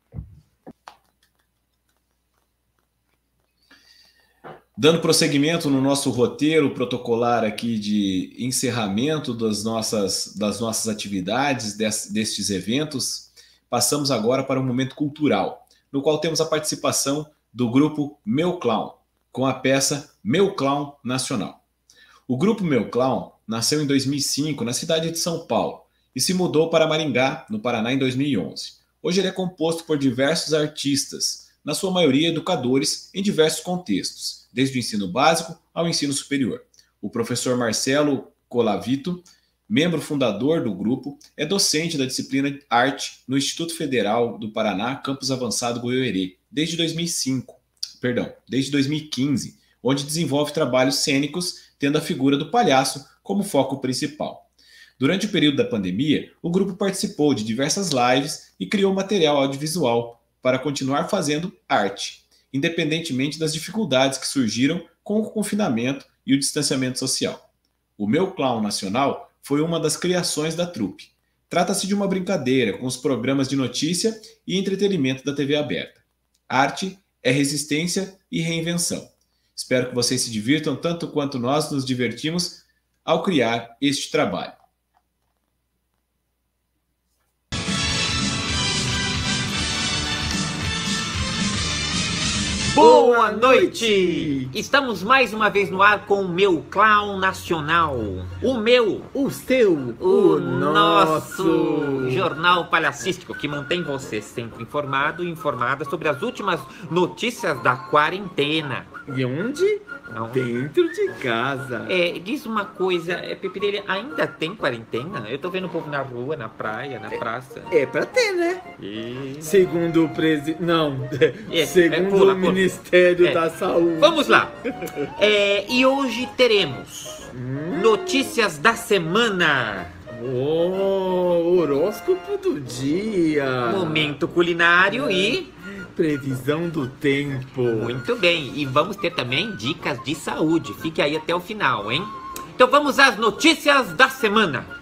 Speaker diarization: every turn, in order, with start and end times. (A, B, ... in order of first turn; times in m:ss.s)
0:04.8-0:21.6 A
0:22.3-0:54.4 A
0:55.0-1:07.4 A
1:08.0-1:24.6 A
1:32.7-1:34.5 B
1:32.8-1:39.1 C
1:39.1-1:42.3 B
1:40.0-1:48.9 C
1:49.1-1:51.9 B
1:50.1-1:50.4 C
1:51.9-1:57.7 C
1:57.7-1:58.6 B
1:58.8-1:59.6 C
1:59.4-2:05.1 B
2:01.5-2:02.7 C
2:04.0-2:04.6 C
2:05.2-2:10.0 C
2:07.3-2:07.9 B
2:10.1-2:14.2 B
2:13.6-2:15.5 C
2:14.9-2:15.4 B
2:15.9-2:18.0 B
2:17.7-2:24.7 C